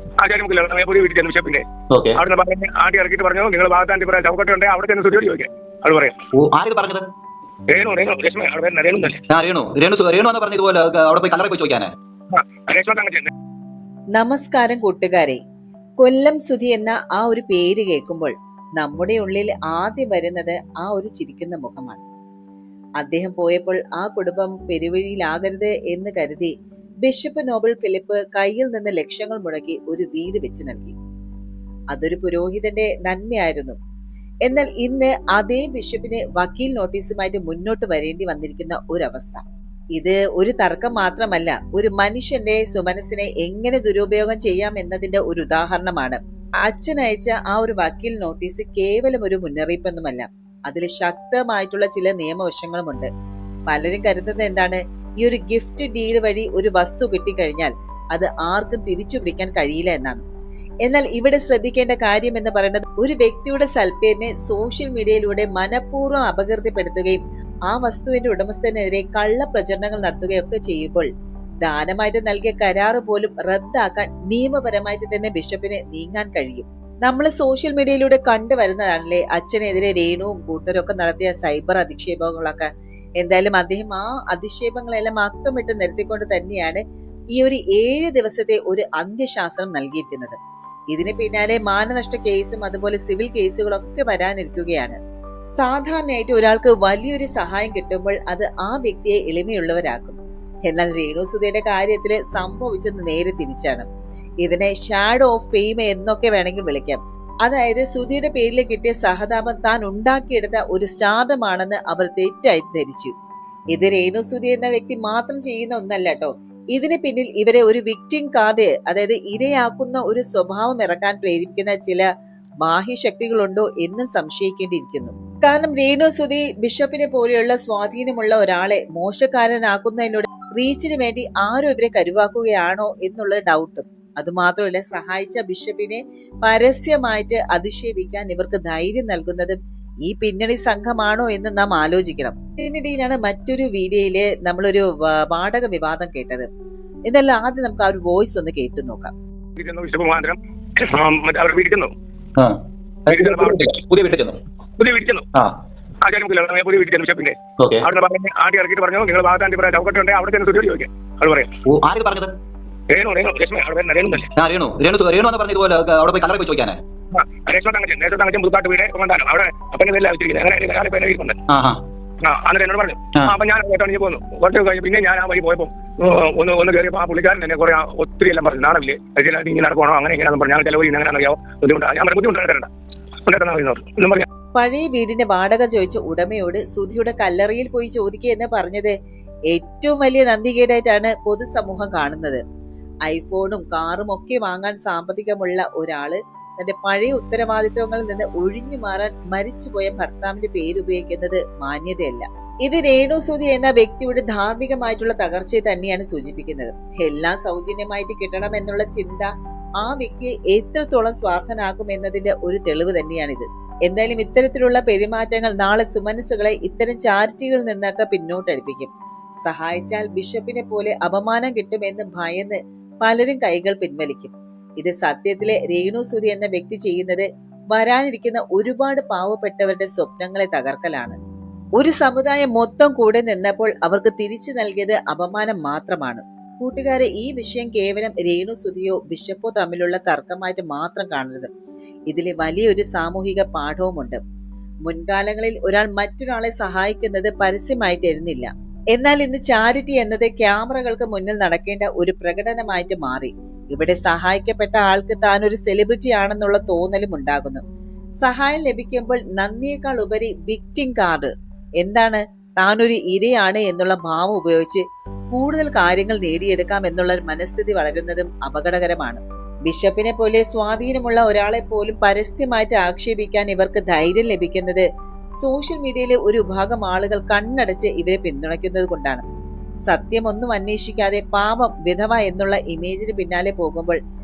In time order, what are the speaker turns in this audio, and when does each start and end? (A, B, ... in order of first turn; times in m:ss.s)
0:00.2-0:06.1 A
0:01.9-0:02.2 B
0:06.3-0:07.1 B
0:07.7-0:09.2 A
0:09.3-0:11.9 B
0:12.3-0:13.3 A
0:14.2-0:15.4 C
0:16.0-0:22.0 C
0:23.0-0:30.9 C
0:31.9-0:33.8 C
0:34.4-0:39.4 C
0:39.9-0:53.1 C
0:53.7-1:00.2 C
1:00.8-1:11.1 C
1:11.6-1:26.8 C
1:27.3-1:30.4 C
1:30.9-1:35.0 C
1:35.6-1:40.2 C
1:40.7-1:43.8 C
1:44.4-1:53.1 C
1:53.7-2:02.0 C
2:02.6-2:26.5 C
2:27.1-2:29.1 C
2:29.6-2:31.9 A
2:32.4-2:34.4 B
2:33.1-2:33.8 A
2:34.8-2:35.2 A
2:36.0-2:41.5 A
2:37.6-2:37.8 B
2:41.7-2:42.3 B
2:42.9-2:44.3 A
2:44.4-2:46.8 B
2:47.1-2:51.4 A
2:51.5-2:51.8 B
2:52.2-3:02.7 A
3:03.2-3:04.2 A
3:04.5-3:08.9 C
3:09.5-3:12.4 C
3:13.1-3:29.3 C
3:29.8-3:38.9 C
3:39.4-3:51.2 C
3:51.8-4:01.5 C
4:02.1-4:04.2 C
4:04.8-4:17.6 C
4:18.2-4:34.8 C
4:35.4-4:39.2 C
4:39.9-4:44.0 C